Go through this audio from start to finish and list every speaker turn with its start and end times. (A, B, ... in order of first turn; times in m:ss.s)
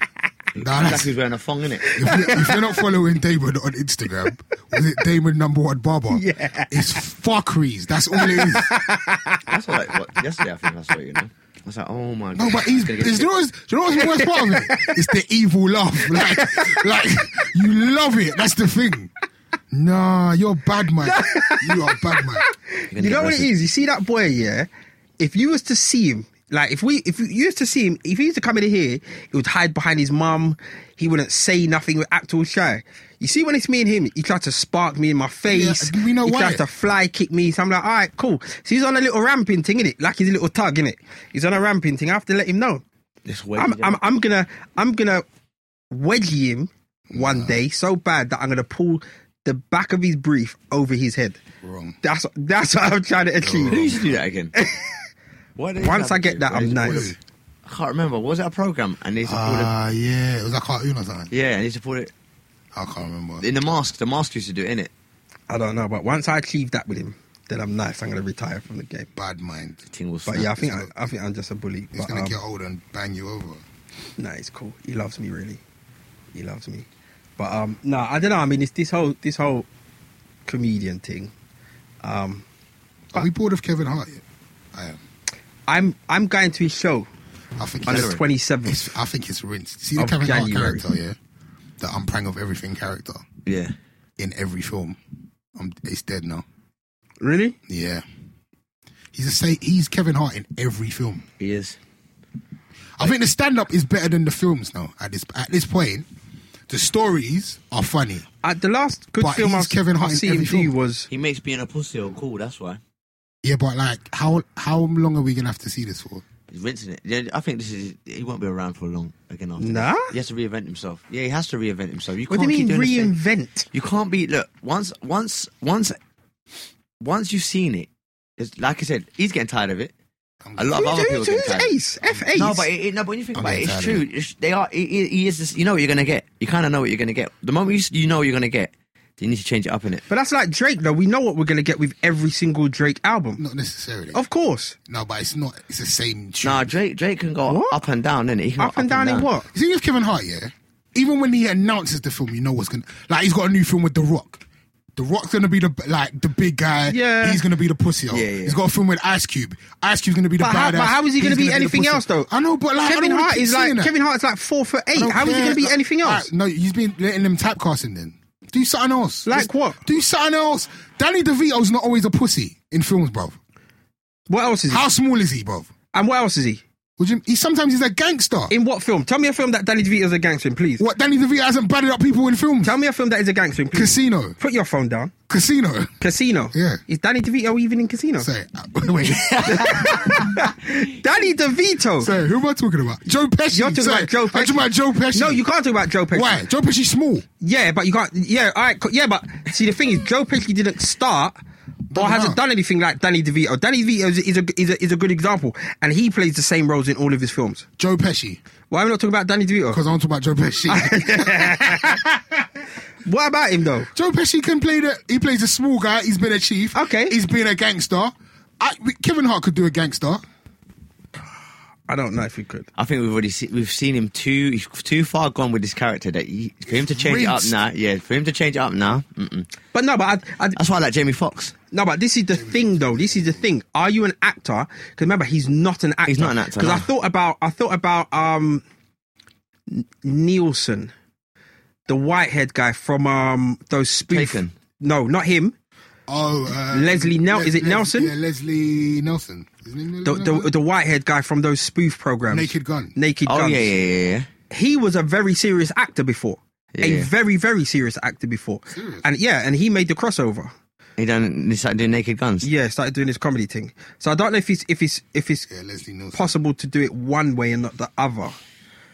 0:00.6-0:01.9 A
0:00.6-0:01.1 B
0:01.8-0:02.8 C
0:01.9-0:08.8 B
0:06.1-0:06.8 C
0:08.1-0:09.6 C
0:09.4-0:13.3 A
0:12.4-0:19.1 B
0:13.9-0:15.1 C
0:16.0-0:16.9 C
0:19.7-0:22.5 B
0:21.0-0:42.8 C
0:22.9-0:23.5 A
0:35.5-0:36.6 B
0:43.2-0:44.0 A
0:43.6-0:45.2 C
0:45.9-0:51.4 C
0:47.1-0:47.6 B
0:51.6-0:52.0 B
0:52.0-0:53.9 C
0:53.4-0:54.2 B
0:53.7-0:54.6 A
0:54.6-0:55.0 C
0:55.6-0:57.1 A
0:55.8-0:57.1 C
0:56.7-0:57.2 B
0:57.7-0:59.7 A
0:59.3-1:01.3 B
1:01.3-1:02.1 A
1:02.7-1:03.4 B
1:03.4-1:04.9 A
1:05.5-1:09.1 C
1:09.1-1:09.8 B
1:09.9-1:10.6 A
1:10.3-1:12.4 C
1:10.6-1:10.9 B
1:12.0-1:13.6 B
1:14.2-1:15.6 C
1:16.3-1:16.9 C
1:17.4-1:19.7 C
1:20.4-1:21.3 C
1:22.0-1:22.4 C
1:23.1-1:24.2 B
1:24.7-1:25.0 B
1:25.7-1:27.1 C
1:27.6-1:31.2 B
1:27.9-1:29.0 C
1:27.9-1:28.2 A
1:30.0-1:30.8 C
1:31.8-1:33.2 B
1:33.4-1:33.7 A
1:34.2-1:35.0 B
1:35.6-1:36.4 B
1:37.2-1:37.6 C
1:37.7-1:38.0 B
1:39.1-1:41.2 B
1:41.4-1:41.8 A
1:43.0-1:46.0 B
1:46.7-1:48.3 B
1:48.4-1:51.1 C
1:49.2-1:50.7 B
1:51.1-1:52.8 A
1:53.4-1:56.2 B
1:56.5-2:03.1 A
1:59.6-2:00.1 C
2:02.3-2:03.7 C
2:03.7-2:06.0 A
2:07.0-2:09.9 A
2:10.4-2:10.8 B
2:10.6-2:11.7 A
2:10.7-2:12.7 C
2:12.4-2:20.0 A
2:13.4-2:14.0 B
2:20.1-2:23.4 C
2:23.4-2:24.2 B
2:24.1-2:24.8 C
2:24.9-2:26.8 B
2:26.4-2:29.3 A
2:27.5-2:27.8 C
2:28.6-2:29.5 C
2:29.5-2:34.4 B
2:35.0-2:43.9 B
2:36.9-2:37.4 C
2:38.1-2:38.6 A
2:40.4-2:42.3 C
2:42.8-2:46.3 C
2:45.0-2:53.4 B
2:49.3-2:49.8 C
2:54.3-2:54.9 C
2:54.7-2:55.7 B
2:55.9-2:56.6 C
2:57.0-2:58.5 B
2:58.5-3:00.8 C
3:00.8-3:02.8 B
3:02.6-3:05.1 C
3:03.7-3:04.4 B
3:05.3-3:06.0 B
3:06.0-3:08.3 C
3:06.5-3:06.8 B
3:08.2-3:10.2 B
3:09.1-3:10.4 A
3:09.5-3:12.1 C
3:12.0-3:15.4 B
3:13.5-3:16.4 C
3:16.1-3:17.2 B
3:17.4-3:21.4 C
3:21.9-3:22.4 B
3:21.9-3:27.7 C
3:27.8-3:28.4 B
3:28.7-3:29.8 C
3:29.7-3:32.2 B
3:30.7-3:32.0 C
3:33.0-3:33.9 C
3:34.0-3:40.2 B
3:36.7-3:37.1 C
3:41.9-3:42.7 C
3:42.7-3:49.5 A
3:46.7-3:47.5 B
3:49.7-3:50.6 C
3:50.6-3:51.6 A
3:51.7-3:58.6 C
3:52.4-3:53.4 B
3:56.1-3:56.9 A
3:59.7-4:00.9 C
4:01.9-4:05.5 C
4:04.1-4:04.5 A
4:06.1-4:10.5 B
4:06.7-4:08.1 C
4:10.0-4:13.7 C
4:12.3-4:13.0 B
4:13.3-4:14.3 A
4:14.5-4:20.5 C
4:16.7-4:17.1 A
4:18.7-4:19.0 B
4:21.0-4:22.5 A
4:22.4-4:25.5 C
4:25.5-4:26.3 B
4:26.1-4:28.4 C